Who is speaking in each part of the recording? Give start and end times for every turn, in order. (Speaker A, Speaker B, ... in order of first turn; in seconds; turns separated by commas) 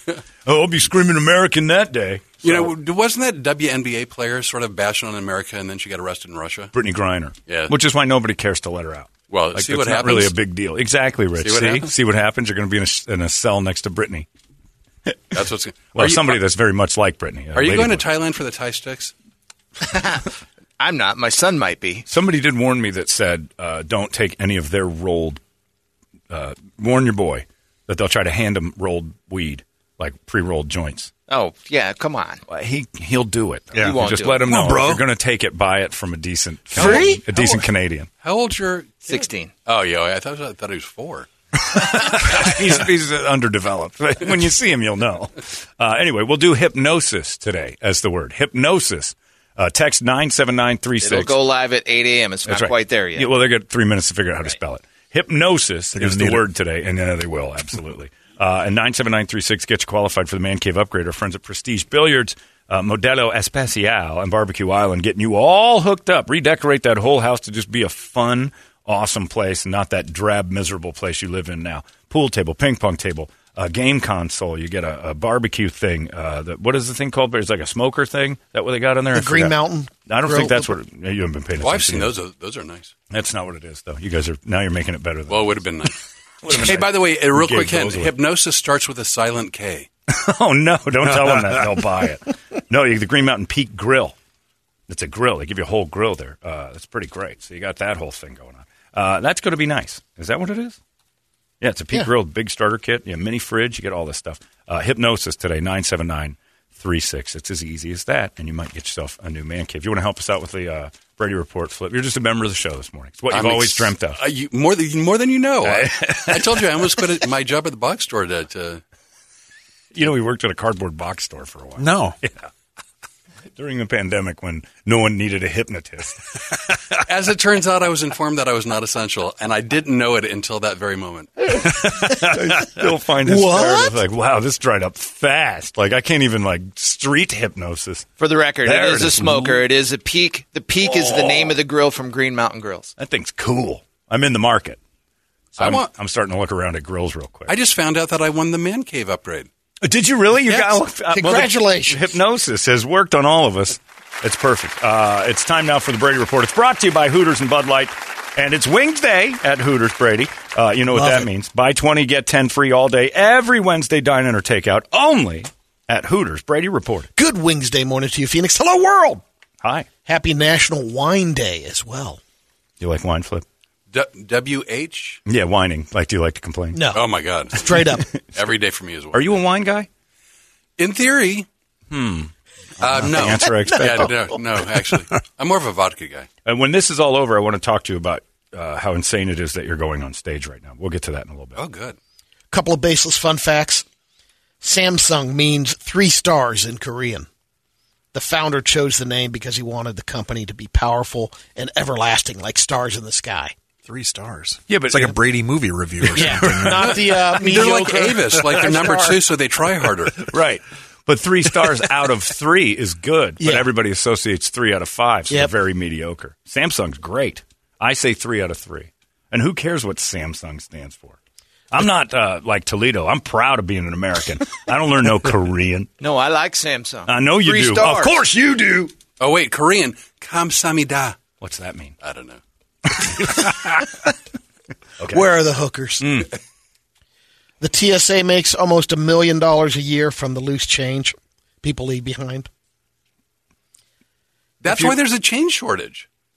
Speaker A: 0.5-2.7, Speaker B: 2.4-6.7, Speaker A: 6.7-14.3, Speaker B: 7.5-7.8, Speaker B: 9.3-10.4, Speaker B: 11.4-11.9, Speaker B: 15.3-16.4, Speaker A: 15.9-18.1, Speaker B: 17.6-19.1, Speaker C: 19.8-20.3, Speaker C: 20.8-22.1, Speaker A: 22.1-25.4, Speaker A: 26.3-31.1, Speaker C: 31.3-32.4, Speaker A: 32.5-38.1, Speaker D: 33.7-35.0, Speaker C: 33.8-34.5, Speaker B: 36.8-37.1, Speaker C: 36.8-37.5, Speaker B: 38.2-41.3, Speaker C: 39.0-39.5, Speaker A: 41.6-51.4, Speaker C: 51.0-53.4, Speaker A: 52.5-79.6, Speaker D: 56.0-56.4, Speaker E: 79.1-80.7, Speaker A: 80.1-82.1, Speaker B: 81.6-82.9, Speaker A: 83.1-85.6, Speaker B: 85.3-89.9, Speaker A: 86.4-88.1, Speaker A: 90.1-94.2, Speaker A: 94.9-100.8, Speaker A: 101.6-114.2, Speaker B: 113.3-118.8, Speaker A: 115.6-117.0, Speaker A: 119.9-122.5, Speaker D: 121.8-122.2, Speaker A: 123.6-127.0, Speaker B: 127.0-131.6, Speaker A: 131.5-138.1, Speaker E: 132.0-132.7, Speaker E: 133.2-133.9, Speaker C: 138.2-142.9, Speaker A: 138.6-139.7, Speaker A: 140.8-141.6, Speaker A: 143.0-144.8, Speaker B: 145.6-145.9, Speaker A: 145.6-147.5, Speaker B: 147.5-149.5, Speaker A: 149.8-167.1, Speaker E: 150.5-152.1, Speaker E: 160.9-161.3, Speaker E: 167.2-169.2, Speaker A: 169.6-169.9, Speaker E: 170.1-172.2, Speaker A: 172.8-173.5, Speaker B: 173.9-175.2, Speaker A: 175.3-176.9, Speaker E: 176.7-178.1, Speaker B: 176.9-179.4, Speaker A: 179.1-179.9, Speaker B: 180.8-181.5, Speaker A: 181.9-184.4, Speaker B: 182.8-186.3, Speaker A: 186.4-191.6, Speaker B: 191.6-192.0, Speaker E: 192.5-193.8, Speaker E: 194.6-197.3, Speaker E: 198.1-203.5, Speaker D: 203.9-207.2, Speaker A: 204.7-205.2, Speaker A: 206.0-206.9, Speaker E: 206.1-209.2, Speaker B: 206.9-210.3, Speaker A: 210.2-221.2, Speaker E: 213.4-213.7, Speaker A: 221.7-225.9, Speaker C: 226.0-228.2, Speaker A: 227.1-228.9, Speaker B: 229.2-231.2, Speaker A: 231.4-231.9, Speaker B: 232.0-232.4, Speaker A: 232.9-233.9, Speaker A: 235.0-235.3, Speaker E: 235.1-236.1, Speaker A: 236.0-236.3, Speaker E: 237.6-242.5, Speaker B: 244.6-246.1, Speaker E: 244.7-245.0